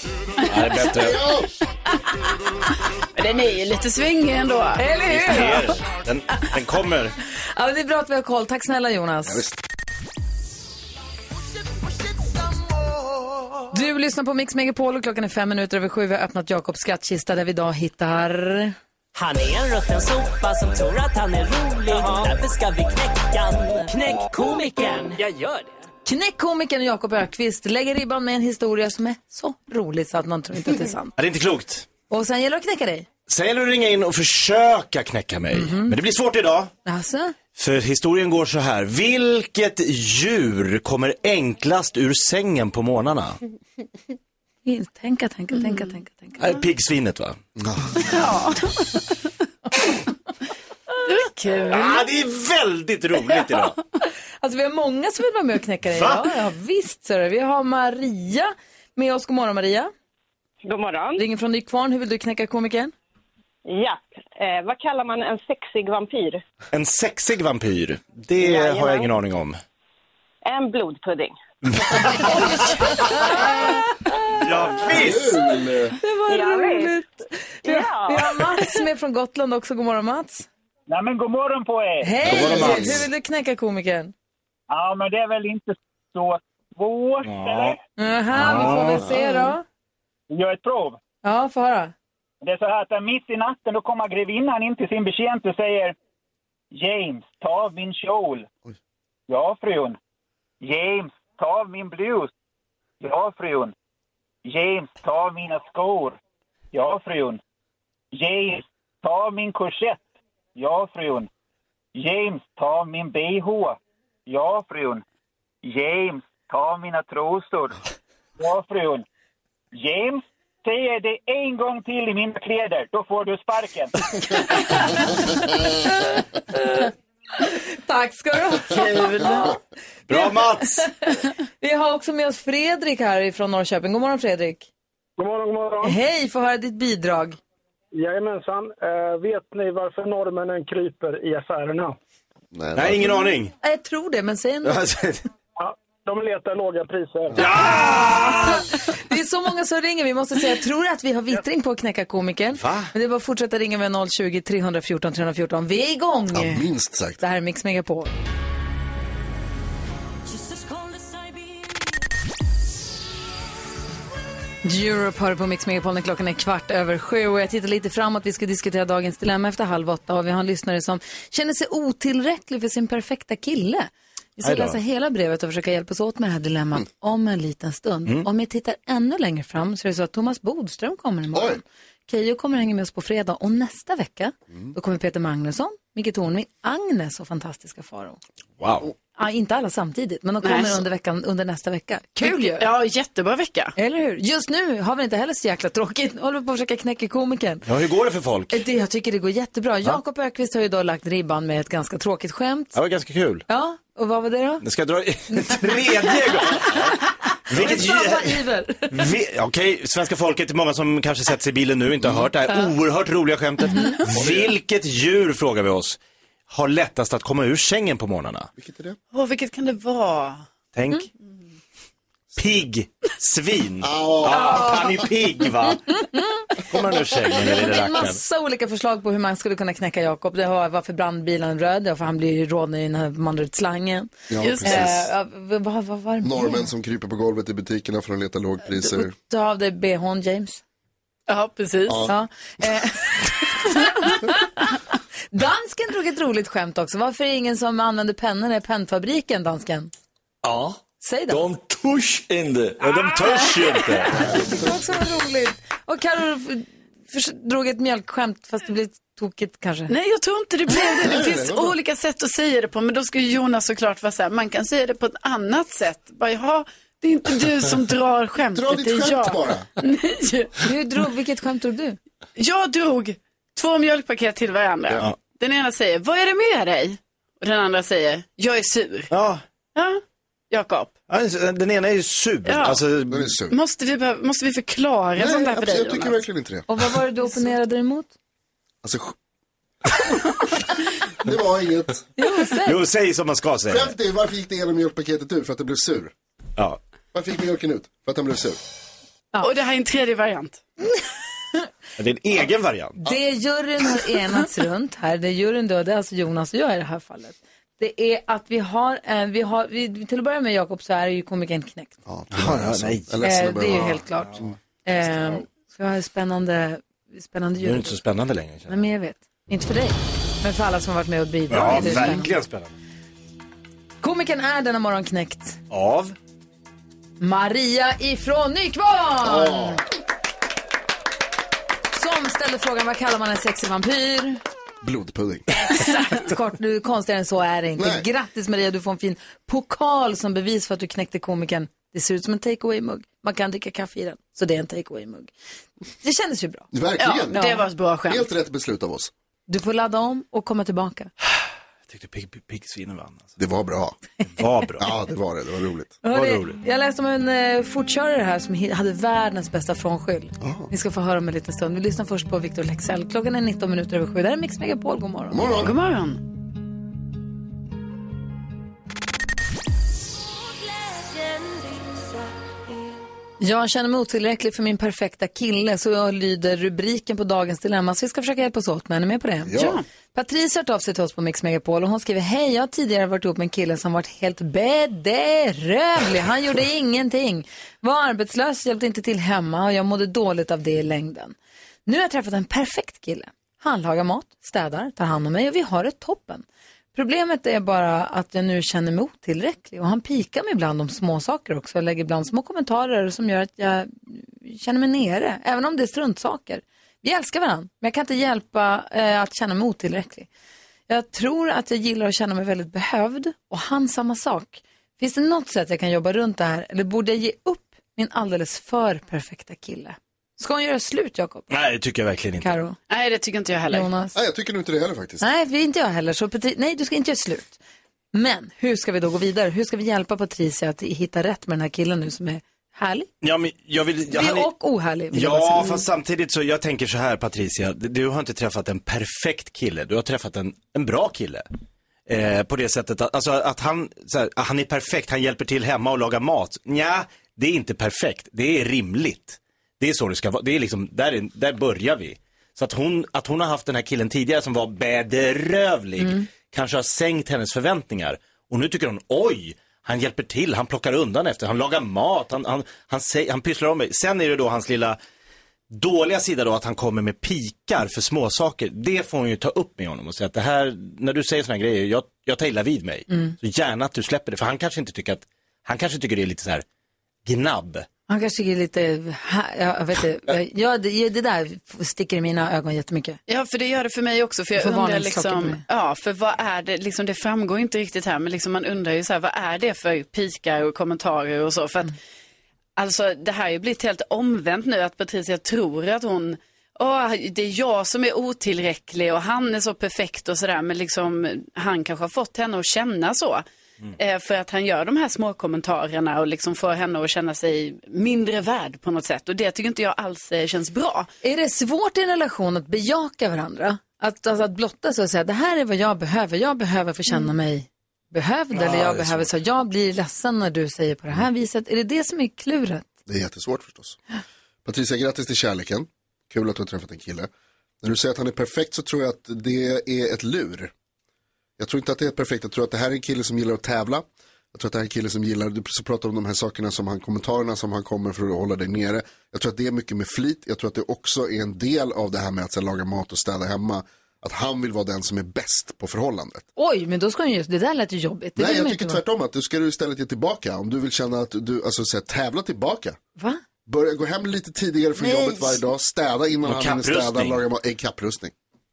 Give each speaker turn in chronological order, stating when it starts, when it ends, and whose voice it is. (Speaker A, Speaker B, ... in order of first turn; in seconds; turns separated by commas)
Speaker A: 0.4-1.2, Speaker B: 0.8-1.5, Speaker C: 3.1-4.9, Speaker D: 4.8-5.7, Speaker A: 5.1-7.1, Speaker D: 7.5-9.4, Speaker B: 9.2-9.6, Speaker D: 13.7-18.8, Speaker E: 19.1-25.7, Speaker D: 26.0-31.1, Speaker A: 31.2-31.9, Speaker D: 32.1-33.1, Speaker A: 33.3-36.7, Speaker D: 35.5-36.0, Speaker D: 36.8-37.3, Speaker A: 37.5-43.4, Speaker D: 44.6-46.6, Speaker A: 46.4-47.4, Speaker B: 47.6-48.2, Speaker C: 48.0-48.9, Speaker C: 51.0-52.1, Speaker A: 51.6-53.8, Speaker D: 54.4-59.9, Speaker A: 55.9-56.2, Speaker F: 60.6-61.2, Speaker D: 61.1-62.9, Speaker F: 63.6-66.4, Speaker A: 66.7-69.6, Speaker F: 68.4-69.1, Speaker F: 70.4-71.3, Speaker A: 71.8-73.8, Speaker D: 72.3-73.8, Speaker A: 74.3-75.4, Speaker B: 74.8-76.0, Speaker D: 76.0-80.5, Speaker F: 76.3-77.0, Speaker F: 77.6-78.7, Speaker G: 80.9-82.2, Speaker D: 82.0-84.1, Speaker A: 82.2-83.0, Speaker B: 82.2-83.0, Speaker G: 84.7-87.8, Speaker A: 87.2-87.8, Speaker D: 88.0-89.6, Speaker A: 88.3-89.2, Speaker G: 90.3-91.0, Speaker D: 91.2-91.9, Speaker G: 92.4-95.9, Speaker G: 96.7-98.5, Speaker G: 99.3-100.0, Speaker G: 100.6-102.3, Speaker G: 103.0-103.7, Speaker G: 104.4-106.2, Speaker G: 106.7-107.4, Speaker G: 108.1-110.0, Speaker G: 110.5-111.3, Speaker G: 111.9-115.0, Speaker G: 115.6-117.8, Speaker G: 118.4-119.0, Speaker G: 119.8-124.0, Speaker D: 124.5-129.5, Speaker C: 128.7-129.6, Speaker A: 130.1-130.8, Speaker D: 130.1-134.7, Speaker H: 135.2-136.0, Speaker D: 135.8-137.4, Speaker H: 137.9-142.0, Speaker B: 142.5-143.4, Speaker A: 142.7-143.5, Speaker D: 143.6-144.8, Speaker A: 144.6-145.2, Speaker H: 145.6-147.5, Speaker A: 147.4-148.6, Speaker D: 147.5-156.6, Speaker A: 152.5-152.9, Speaker B: 156.3-157.2, Speaker D: 157.2-158.1, Speaker D: 164.6-188.2, Speaker A: 174.4-174.8, Speaker B: 181.3-181.6, Speaker A: 188.6-188.9, Speaker D: 189.1-192.7, Speaker C: 190.4-190.8, Speaker C: 192.2-193.7, Speaker D: 193.8-197.6, Speaker A: 197.7-198.6, Speaker D: 198.5-202.8, Speaker A: 202.7-203.4, Speaker D: 203.5-204.6, Speaker A: 204.6-218.5, Speaker D: 205.3-206.7, Speaker D: 207.3-209.0, Speaker B: 212.0-212.3, Speaker B: 214.1-214.5, Speaker B: 218.6-219.0, Speaker C: 219.1-220.4, Speaker A: 220.7-221.1, Speaker A: 222.3-226.0, Speaker B: 223.8-225.1, Speaker D: 226.0-226.4, Speaker A: 226.6-228.2, Speaker D: 227.3-236.7, Speaker B: 234.3-235.1, Speaker C: 234.4-235.0, Speaker B: 236.2-239.1, Speaker D: 238.7-240.6, Speaker C: 241.3-242.1, Speaker B: 241.9-242.1, Speaker D: 242.1-244.7, Speaker D: 245.3-249.9, Speaker I: 250.4-253.2, Speaker D: 251.0-251.4, Speaker A: 252.8-254.4, Speaker D: 254.2-259.9, Speaker B: 254.4-254.7, Speaker C: 259.9-270.7, Speaker B: 260.9-261.8, Speaker B: 268.5-269.7, Speaker D: 270.6-272.0, Speaker C: 272.4-279.1, Speaker A: 279.1-279.4, Speaker C: 279.7-280.9, Speaker A: 281.1-283.3, Speaker C: 282.4-282.8, Speaker B: 283.1-283.6, Speaker C: 283.5-286.2, Speaker B: 285.2-286.7, Speaker D: 286.7-288.1, Speaker B: 288.8-289.1, Speaker B: 291.2-292.0, Speaker D: 292.2-292.8, Speaker A: 292.6-293.9, Speaker B: 293.7-296.1, Speaker B: 297.1-298.6, Speaker C: 299.4-300.6, Speaker A: 302.0-303.2, Speaker D: 303.0-311.9, Speaker B: 312.1-314.5, Speaker A: 312.3-313.1, Speaker D: 313.2-314.3, Speaker A: 313.7-314.5, Speaker D: 314.8-318.0, Speaker A: 317.6-318.8, Speaker D: 318.7-322.3, Speaker A: 321.5-322.7, Speaker B: 321.6-322.2, Speaker D: 324.0-325.6, Speaker A: 325.7-326.1, Speaker D: 327.2-329.8, Speaker B: 329.2-329.8, Speaker D: 331.9-334.4, Speaker B: 334.8-335.5, Speaker D: 335.7-345.3, Speaker B: 337.8-338.1, Speaker D: 346.0-346.7, Speaker B: 346.7-347.4, Speaker C: 347.0-348.3, Speaker D: 347.3-347.6, Speaker B: 348.1-349.1, Speaker D: 349.5-351.1, Speaker A: 351.9-353.3, Speaker B: 353.4-354.0, Speaker A: 354.4-354.8, Speaker B: 354.8-356.0, Speaker D: 356.0-365.4, Speaker A: 356.1-356.6, Speaker B: 360.4-360.7, Speaker B: 365.3-365.8, Speaker C: 365.5-366.2, Speaker D: 373.4-379.5, Speaker B: 379.4-379.8, Speaker C: 379.5-379.8, Speaker D: 380.1-410.3, Speaker D: 410.9-421.5, Speaker A: 421.5-422.5, Speaker D: 422.4-422.8, Speaker C: 422.9-423.9, Speaker D: 423.7-424.1, Speaker B: 424.1-425.3, Speaker D: 425.2-427.6, Speaker D: 428.1-433.1, Speaker A: 433.2-434.5, Speaker D: 434.1-435.8, Speaker A: 435.1-441.4, Speaker A: 442.1-465.0, Speaker D: 456.0-456.3, Speaker A: 465.7-476.6, Speaker D: 473.1-473.4, Speaker A: 477.2-477.9, Speaker D: 478.1-483.2, Speaker C: 483.3-491.9, Speaker D: 484.6-485.6, Speaker C: 492.8-503.4, Speaker C: 503.9-511.1, Speaker D: 511.2-522.9, Speaker A: 518.5-519.3, Speaker B: 523.0-524.0, Speaker B: 524.6-527.3, Speaker B: 527.8-530.7, Speaker B: 531.6-546.5, Speaker D: 546.6-549.0, Speaker B: 548.4-553.0, Speaker B: 553.6-558.3, Speaker D: 555.0-555.6, Speaker A: 556.4-557.4